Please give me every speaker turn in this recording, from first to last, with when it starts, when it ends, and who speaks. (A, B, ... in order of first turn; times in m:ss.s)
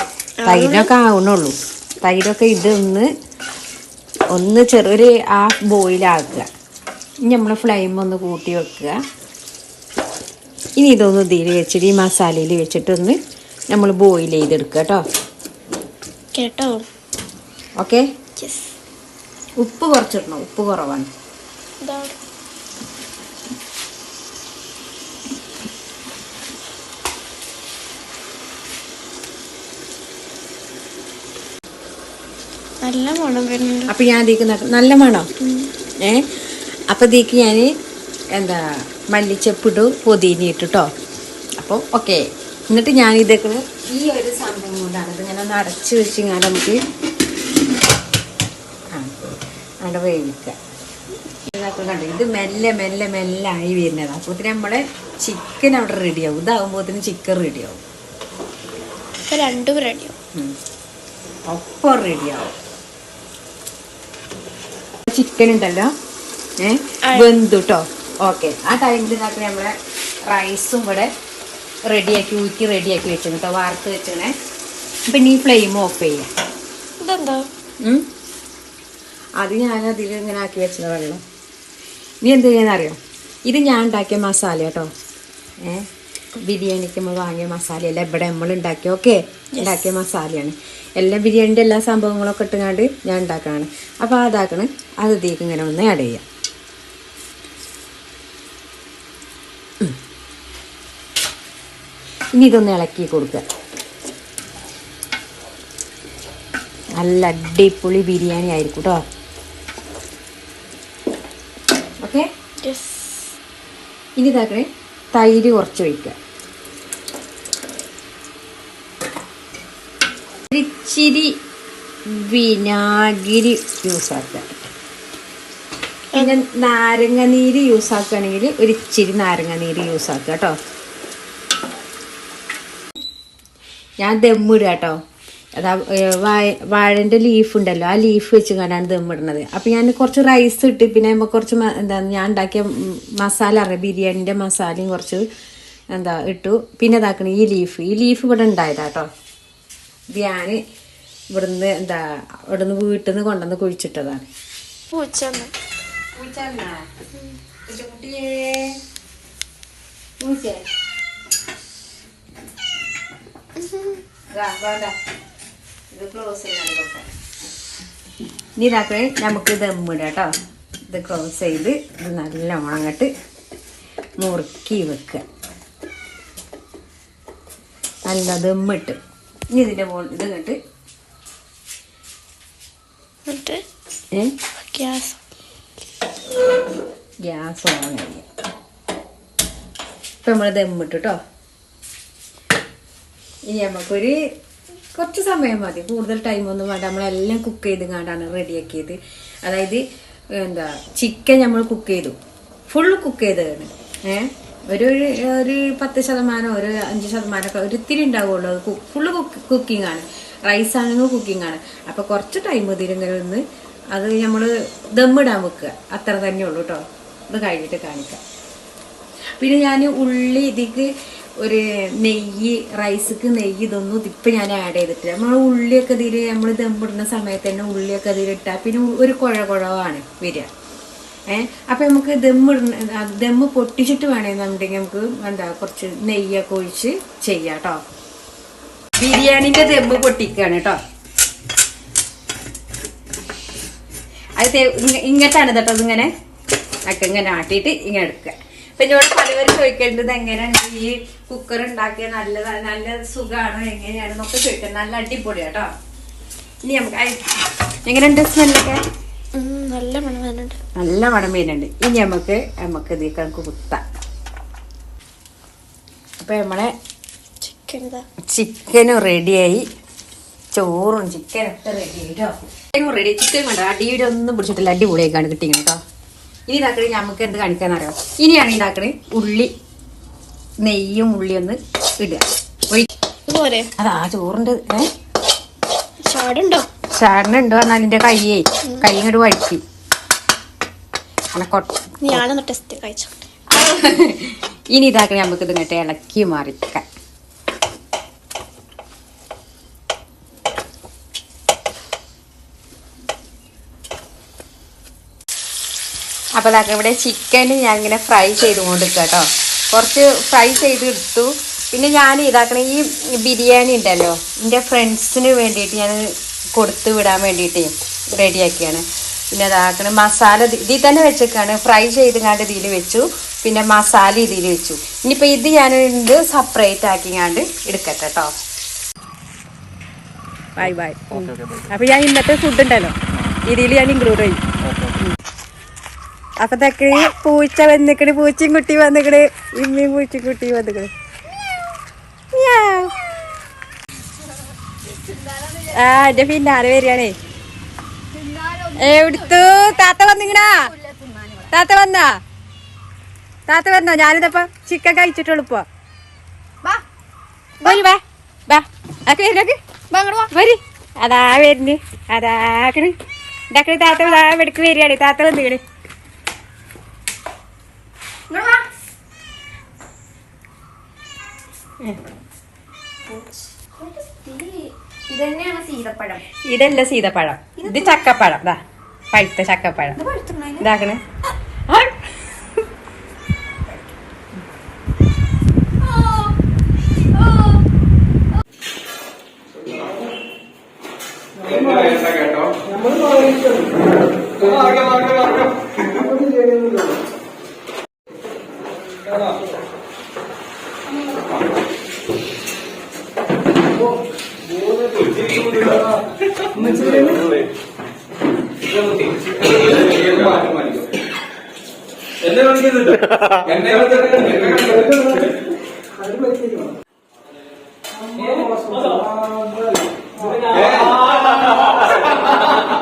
0:00.4-0:00.9 A
0:00.4-0:03.1 B
0:04.3-0:06.5 B
0:07.2-0:09.0 B
0:10.8-0:13.2 B
0:13.7-0:15.0 B
0:16.3-0:16.9 A
0:17.8-0:18.1 B
0:18.4-0:18.8 A
0:19.6-0:21.1 B
0:21.8-0:22.2 A
0:32.8-0:33.9 A
0:33.9-0:35.3 B
0:35.4-0:35.7 A
0:36.0-0:37.7 B
0:38.4-0:40.9 B
0:41.6-0:46.8 B
0:49.8-0:50.6 B
0:51.5-0:57.8 B
0:59.3-1:00.2 A
1:01.5-1:02.5 B
1:05.1-1:05.9 B
1:06.6-1:09.7 B
1:10.3-1:11.1 B
1:11.9-1:14.3 B
1:15.1-1:16.3 B
1:17.0-1:17.5 A
1:19.4-1:21.2 B
1:22.2-1:24.9 B
1:26.4-1:36.2 B
1:29.6-1:29.9 A
1:42.4-1:43.4 B
1:47.0-1:49.0 B
1:52.6-1:53.3 A
1:54.2-1:56.2 B
2:00.5-2:01.3 B
2:02.1-2:04.5 B
2:06.1-2:10.6 B
2:14.0-2:15.0 B
2:15.6-2:25.2 B
2:25.9-2:29.1 B
2:30.1-2:30.6 B
2:31.3-2:34.3 B
2:34.9-2:35.5 A
2:36.2-2:36.9 B
2:37.7-2:38.7 B
2:40.2-2:40.6 B
2:43.6-2:44.0 A
2:44.3-2:44.9 B
2:45.9-2:47.1 B
2:48.6-2:50.3 B
2:50.9-2:53.1 B
2:54.2-2:55.2 B
2:58.1-2:59.0 B
2:59.5-3:00.6 B
3:03.3-3:03.6 A
3:04.7-3:05.2 A
3:07.2-3:08.3 B
3:10.2-3:11.2 B
3:13.5-3:14.2 B
3:14.9-3:19.8 B
3:20.3-3:22.2 B
3:22.7-3:38.2 B
3:39.4-3:50.5 B
3:51.3-3:57.8 B
3:59.0-4:00.8 B
4:04.4-4:06.1 B
4:06.9-4:15.7 B
4:16.6-4:18.8 B
4:19.4-4:20.6 A
4:20.8-4:23.8 B
4:26.2-4:26.7 B
4:27.4-4:28.0 A
4:28.3-4:29.6 B
4:30.5-4:35.8 B
4:36.5-4:39.5 B
4:40.6-4:42.9 B
4:43.3-4:43.7 A
4:43.8-4:44.9 B
4:46.0-4:46.7 A
4:46.9-4:49.6 B
4:51.4-4:52.2 B
4:52.0-4:53.1 A
4:53.5-4:56.8 B
5:06.4-5:28.3 B
5:30.6-5:34.4 B
5:36.4-5:40.9 B
5:42.3-5:43.0 B
5:45.0-5:45.6 A
5:45.6-5:47.1 B
5:48.1-5:49.7 A
5:48.8-5:50.8 B
5:50.7-5:51.5 A
5:51.5-5:52.2 B
5:53.5-5:55.6 B
5:57.6-5:59.6 B
5:59.9-6:00.2 A
6:00.2-6:03.0 B
6:03.5-6:05.6 B
6:08.3-6:08.7 A
6:13.1-6:16.2 A
6:16.3-6:18.6 B
6:17.6-6:17.9 A
6:19.1-6:20.0 B
6:20.0-6:20.6 A
6:20.6-6:21.0 B
6:21.7-6:22.5 B
6:25.8-6:26.3 A
6:27.1-6:27.6 A
6:31.5-6:33.5 C
6:31.8-6:32.2 A
6:36.2-6:36.8 C
6:44.8-6:45.9 C
6:46.6-6:47.3 C
6:49.8-6:50.8 C
6:52.3-6:52.9 C
6:53.5-6:55.3 C
6:56.1-6:56.6 C
6:58.3-6:59.6 C
7:00.2-7:00.9 C